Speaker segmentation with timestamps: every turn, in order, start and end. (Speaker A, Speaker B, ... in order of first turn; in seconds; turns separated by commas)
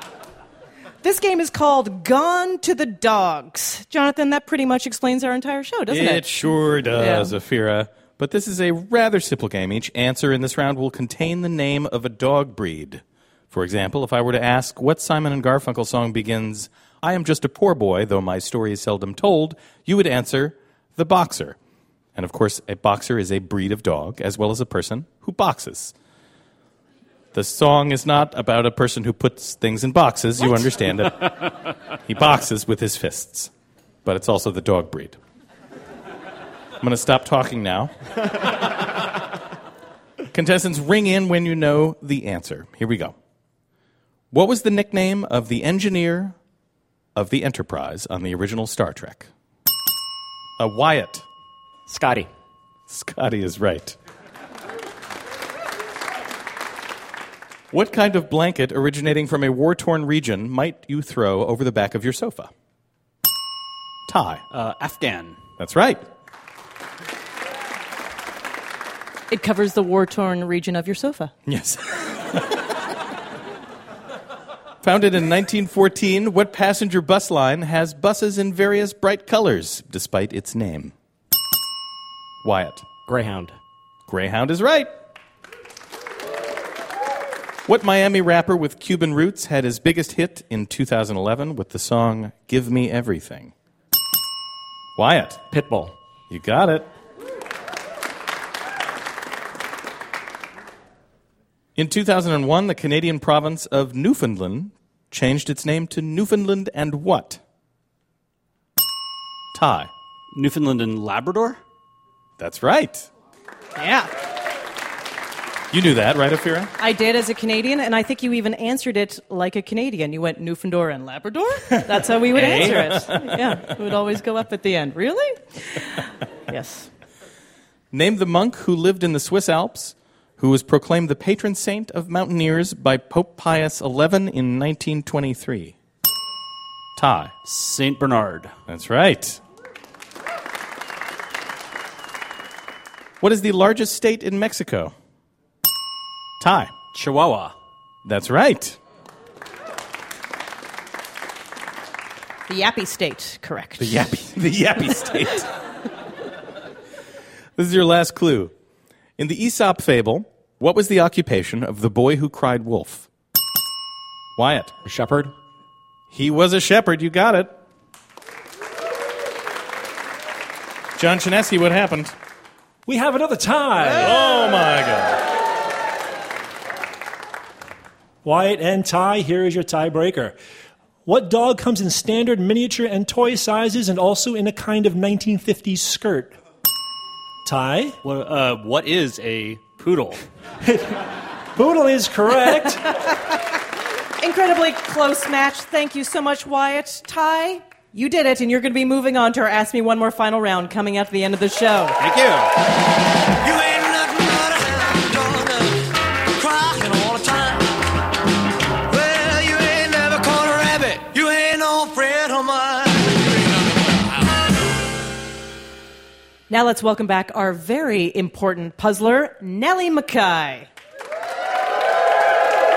Speaker A: 1.0-7.3, Speaker B: 5.9-21.6, Speaker B: 22.1-25.9, Speaker B: 27.3-33.5, Speaker B: 34.0-35.2, Speaker B: 36.8-37.9, Speaker B: 40.3-43.1, Speaker B: 44.3-46.4, Speaker B: 47.1-49.3, Speaker B: 50.6-51.2, Speaker C: 51.9-52.3, Speaker B: 52.9-54.0, Speaker B: 57.7-62.5, Speaker B: 64.1-64.4, Speaker D: 64.5-65.4, Speaker B: 65.6-66.0, Speaker A: 69.3-71.3, Speaker B: 71.5-72.4, Speaker B: 74.8-80.9, Speaker B: 82.4-82.8, Speaker C: 83.1-83.5, Speaker B: 84.1-84.9, Speaker B: 87.7-93.5, Speaker B: 95.0-95.4, Speaker C: 95.5-95.9, Speaker B: 96.3-96.9, Speaker B: 101.8-107.4, Speaker B: 109.5-109.9, Speaker D: 110.3-111.6, Speaker B: 112.4-113.1, Speaker A: 113.8-114.1, Speaker B: 115.7-116.7, Speaker A: 116.8-126.9, Speaker B: 122.3-123.4, Speaker B: 127.9-135.7, Speaker B: 137.0-137.3, Speaker D: 137.4-138.5, Speaker B: 138.7-139.4, Speaker B: 143.2-144.9, Speaker B: 146.4-146.7, Speaker D: 146.9-147.5, Speaker B: 148.0-148.8, Speaker A: 152.5-154.0, Speaker B: 153.8-155.5, Speaker B: 157.6-158.5, Speaker B: 159.2-163.1, Speaker B: 164.4-164.7, Speaker C: 164.8-165.3, Speaker B: 166.1-167.5, Speaker B: 170.9-172.1, Speaker E: 172.9-174.2, Speaker B: 174.0-175.2, Speaker E: 178.2-180.4, Speaker E: 181.0-186.3, Speaker E: 187.4-187.9, Speaker D: 188.0-190.2, Speaker E: 190.6-190.9, Speaker E: 191.6-192.8, Speaker A: 194.2-202.0, Speaker D: 202.0-202.5, Speaker F: 203.4-205.8, Speaker F: 206.3-207.7, Speaker F: 208.9-214.3, Speaker A: 216.5-220.7